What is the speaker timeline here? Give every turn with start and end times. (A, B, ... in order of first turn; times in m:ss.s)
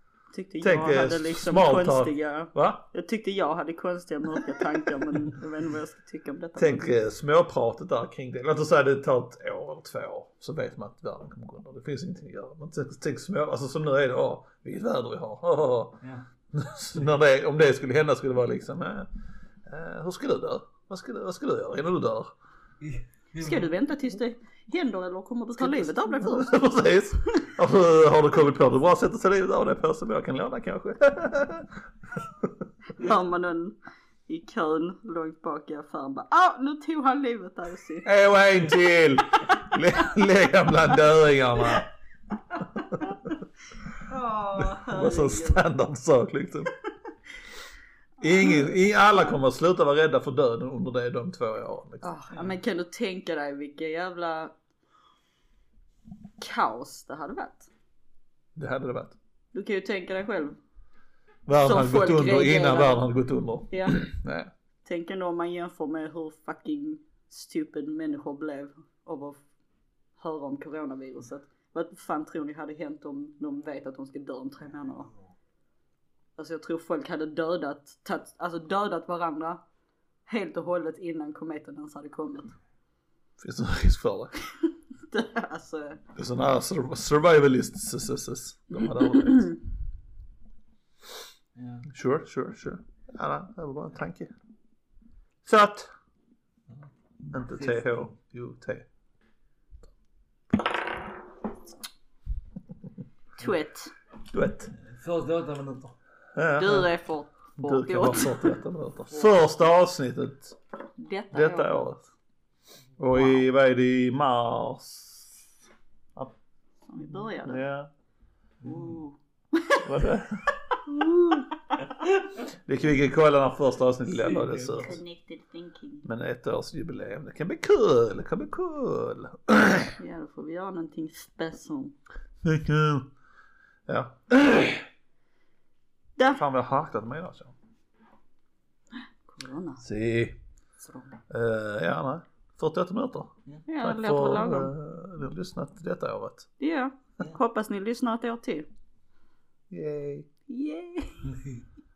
0:00.3-0:06.9 A
0:00.6-0:02.8 B
0:06.6-0:19.1 B
0:19.6-0:22.3 B
0:22.8-0:23.7 C
0:23.4-0:26.6 A
0:25.6-0:32.6 B
0:32.9-0:33.8 A
0:34.3-0:38.1 A
0:38.0-0:41.9 B
0:39.4-0:40.2 A
0:42.6-0:43.3 A
0:44.0-0:45.6 A
0:44.6-0:46.7 B
0:48.2-0:52.0 B
0:48.2-0:48.7 A
0:52.0-0:54.5 A
0:56.4-0:57.7 A
0:58.5-0:59.2 B
0:59.5-1:00.6 A
1:01.4-1:04.5 B
1:01.6-1:03.1 A
1:03.7-1:04.0 A
1:04.8-1:09.4 A
1:10.2-1:15.1 A
1:14.9-1:15.2 C
1:16.4-1:19.6 A
1:20.3-1:22.5 A
1:23.4-1:24.3 B
1:25.0-1:26.0 A
1:26.2-1:29.5 B
1:31.5-1:31.9 C
1:31.9-1:34.3 B
1:35.4-1:35.9 B
1:37.2-1:38.1 C
1:37.3-1:38.9 B
1:40.5-1:40.8 B
1:43.4-1:43.9 A
1:44.3-1:44.7 B
1:44.8-1:46.0 C
1:46.3-1:46.9 B
1:46.6-1:48.6 A
1:47.6-1:50.6 B
1:51.0-1:51.9 A
1:51.3-1:52.0 B
1:53.0-1:55.5 B
1:53.1-1:53.4 A
1:56.9-1:57.6 A
1:57.4-1:57.9 B
1:58.6-1:59.0 C
1:58.6-1:59.9 A
1:59.8-2:01.5 B
2:00.7-2:01.8 A
2:02.4-2:05.0 B
2:04.2-2:06.1 A
2:06.0-2:10.0 B
2:10.0-2:12.0 A
2:12.4-2:13.1 B
2:13.9-2:14.9 B
2:16.3-2:17.5 B
2:19.2-2:19.8 A
2:19.8-2:20.4 B
2:20.8-2:21.2 A
2:21.3-2:26.5 B
2:23.7-2:24.7 A
2:26.6-2:28.7 A
2:29.7-2:30.3 B
2:30.5-2:31.3 A